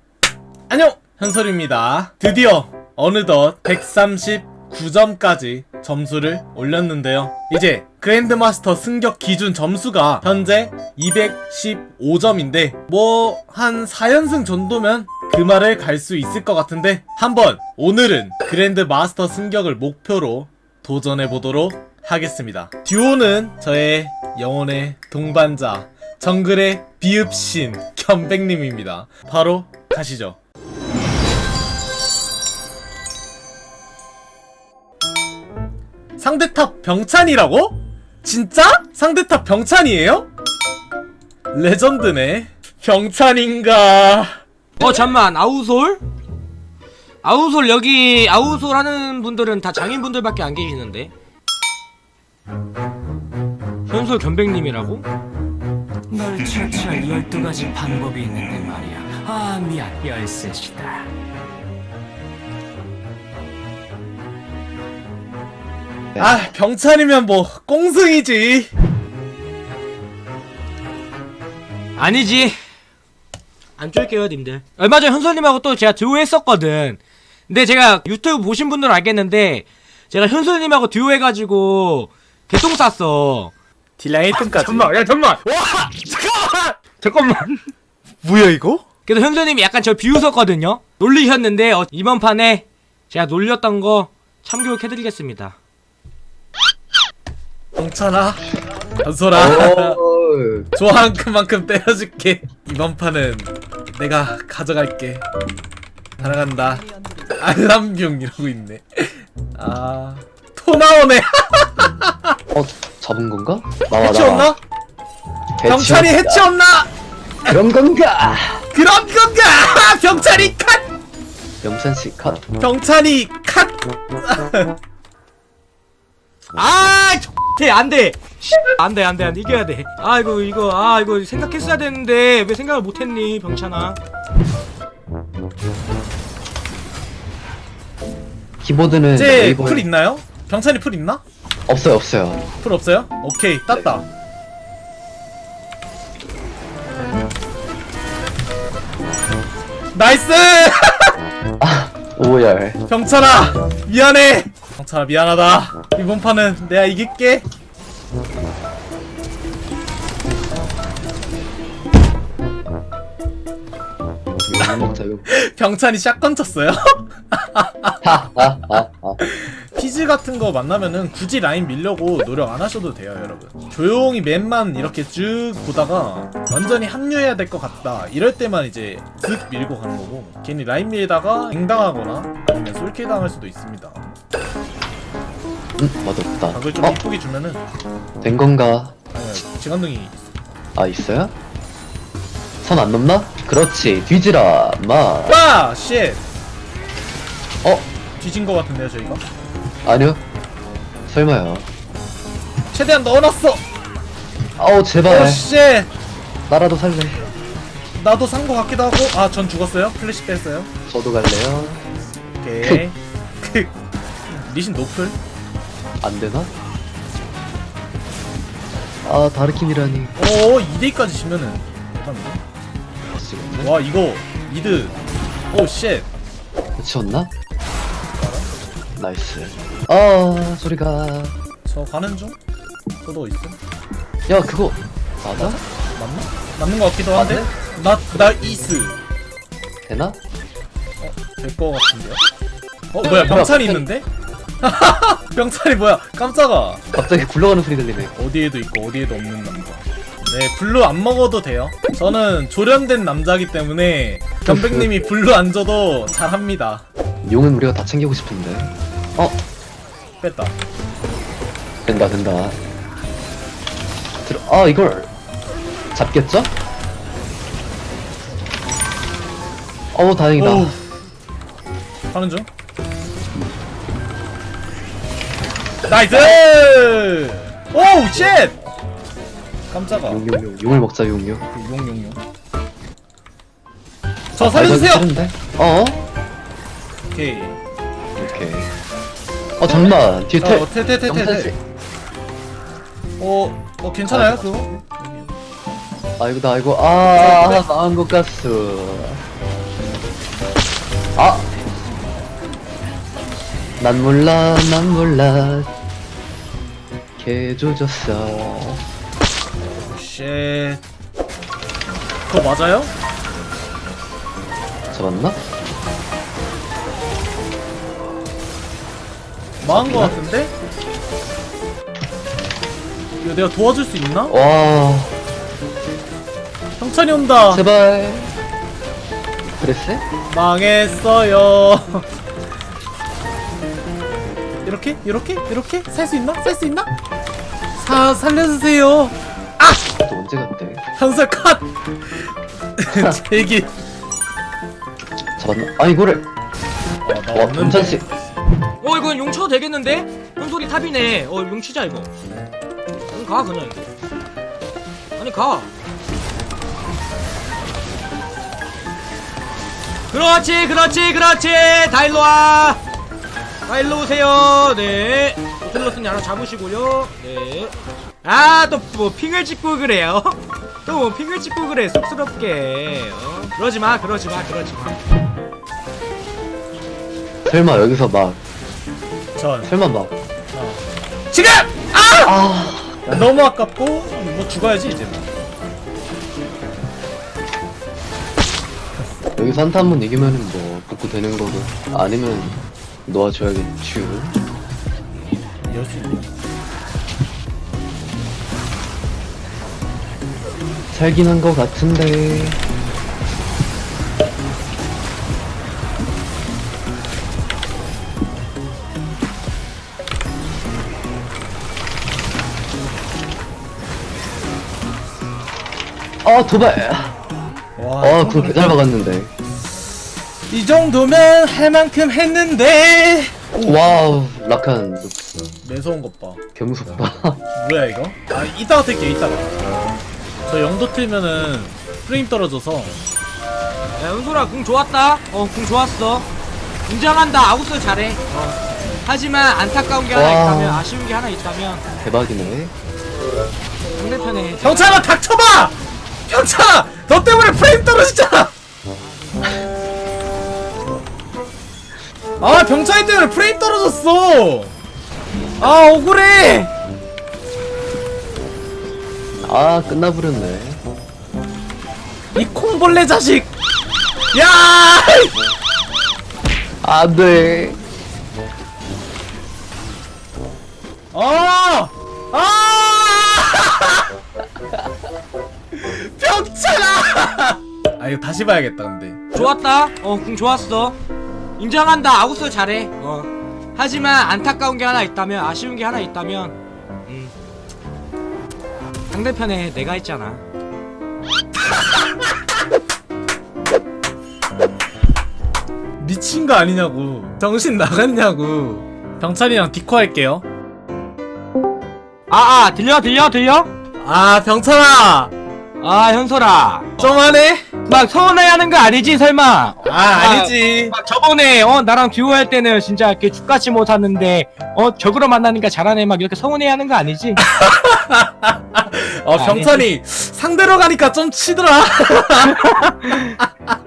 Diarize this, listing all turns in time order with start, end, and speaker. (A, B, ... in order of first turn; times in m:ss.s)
0:00.7-0:30.4 A
0:36.2-0:40.3 A
0:41.5-0:44.9 A
0:44.8-0:46.0 B
0:47.2-0:51.1 B
0:53.9-0:55.0 B
0:56.1-1:01.1 C
1:06.2-1:08.7 A
1:12.0-1:12.5 B
1:13.8-1:23.5 B
1:24.0-1:24.9 A
1:24.3-1:26.2 B
1:25.8-1:26.7 A
1:26.9-1:27.6 B
1:28.2-1:28.8 A
1:29.0-1:35.6 B
1:37.8-1:38.4 A
1:39.0-1:40.0 A
1:39.3-1:40.7 D
1:40.7-1:45.2 A
1:46.2-1:52.4 A
1:52.5-1:54.5 D
1:54.0-1:54.6 A
1:55.6-1:56.4 D
1:55.6-1:56.9 A
1:57.4-1:58.6 D
1:58.7-2:00.8 A
2:01.6-2:02.4 D
2:02.6-2:04.7 A
2:06.6-2:14.0 B
2:18.6-2:19.9 D
2:19.1-2:21.2 A
2:21.7-2:22.4 D
2:22.6-2:24.0 A
2:29.9-2:31.1 A
2:31.6-2:32.8 D
2:32.9-2:37.4 A
2:44.4-2:45.2 D
2:44.6-2:48.0 A
2:48.0-2:49.2 D
2:49.2-3:04.1 A
3:05.8-3:07.0 D
3:06.5-3:07.6 A
3:08.2-3:09.0 D
3:09.1-3:10.3 A
3:10.8-3:11.3 D
3:12.6-3:15.4 D
3:15.3-3:16.2 A
3:18.2-3:19.2 A
3:19.8-3:20.2 D
3:21.1-3:21.7 D
3:22.7-3:23.6 A
3:24.6-3:25.5 D
3:25.0-3:25.9 A
3:26.5-3:27.2 D
3:28.0-3:30.7 A
3:30.9-3:31.8 D
3:32.4-3:33.7 A
3:34.3-3:35.2 A
3:36.0-3:36.5 D
3:39.0-3:40.2 D
3:40.2-3:42.4 A
3:43.1-3:43.7 D
3:43.6-3:44.9 A
3:45.5-3:46.1 A
3:46.8-3:47.3 D
3:48.2-3:48.5 A
3:49.0-3:51.3 D
3:51.6-3:52.4 A
3:53.0-3:53.6 A
3:54.3-3:55.6 D
3:55.4-3:59.0 A
3:57.1-3:57.5 D
3:59.8-4:00.2 D
4:01.0-4:02.2 A
4:02.9-4:04.0 A
4:03.0-4:03.9 D
4:04.6-4:06.9 A
4:06.9-4:08.1 D
4:08.1-4:16.8 A
4:14.4-4:15.0 D
4:17.2-4:19.4 D
4:20.2-4:20.5 A
4:21.9-4:22.6 D
4:24.2-4:25.1 D
4:25.9-4:26.5 D
4:29.9-4:30.7 D
4:30.4-4:30.8 A
4:32.1-4:32.5 A
4:35.9-4:38.6 A
4:39.7-4:40.2 A
4:40.0-4:41.4 D
4:41.5-4:42.2 A
4:44.3-4:45.1 A
4:44.4-4:46.0 D
4:47.1-4:47.6 A
4:48.2-4:48.7 D
4:49.6-4:51.6 D
4:50.4-4:51.5 A
4:53.2-4:55.3 A
4:54.0-4:54.8 D
4:56.2-4:59.2 D
4:57.2-4:57.6 A
5:01.2-5:01.5 D
5:03.8-5:05.7 D
5:07.2-5:08.8 D
5:09.8-5:10.8 A
5:12.3-5:12.9 A
5:14.9-5:15.4 D
5:19.6-5:20.5 A
5:19.6-5:20.2 D
5:23.2-5:24.3 A
5:24.3-5:25.2 D
5:26.8-5:27.6 A
5:27.5-5:28.3 D
5:29.6-5:30.0 D
5:30.3-5:32.0 A
5:34.6-5:36.9 A
5:37.8-5:39.8 A
5:40.0-5:40.8 D
5:41.0-5:43.7 A
5:42.9-5:43.2 D
5:45.4-5:46.3 D
5:47.0-5:48.1 A
5:47.3-5:48.0 D
5:48.8-5:52.1 B
5:53.1-5:53.9 B
5:55.2-5:55.7 B
6:00.1-6:02.8 B
6:03.7-6:15.0 B
6:17.4-6:18.4 D
6:19.4-6:19.7 A
6:19.6-6:20.1 D
6:20.5-6:22.4 A
6:22.2-6:23.3 D
6:23.1-6:25.3 A
6:29.4-6:34.4 D
6:35.7-6:36.3 A
6:40.9-6:42.6 D
6:56.2-6:57.1 D
6:57.8-6:58.8 A
6:58.0-6:59.3 D
7:00.5-7:03.8 A
7:03.6-7:05.2 D
7:05.6-7:06.4 A
7:06.5-7:07.4 D
7:07.5-7:09.5 A
7:10.4-7:13.0 A
7:14.0-7:16.3 B
7:16.9-7:21.8 B
7:20.1-7:20.8 D
7:22.0-7:22.7 D
7:23.9-7:25.1 B
7:24.6-7:25.8 A
7:26.3-7:28.5 A
7:32.4-7:34.7 A
7:35.6-7:36.7 A
7:39.4-7:40.8 D
7:42.3-7:43.5 A
7:44.3-7:45.4 A
7:46.8-7:47.8 D
7:51.1-7:54.1 A
7:55.7-7:59.5 A
7:59.3-8:01.0 B
8:01.6-8:06.6 B
8:07.1-8:07.3 B
8:09.1-8:10.4 B
8:11.7-8:12.1 A
8:16.0-8:20.4 A
8:22.3-8:23.7 B
8:24.0-8:25.3 A
8:25.8-8:27.0 B
8:27.0-8:27.7 A
8:27.9-8:37.4 B
8:29.8-8:31.0 A
8:37.4-8:43.7 A
8:39.4-8:39.8 B
8:42.5-8:43.3 B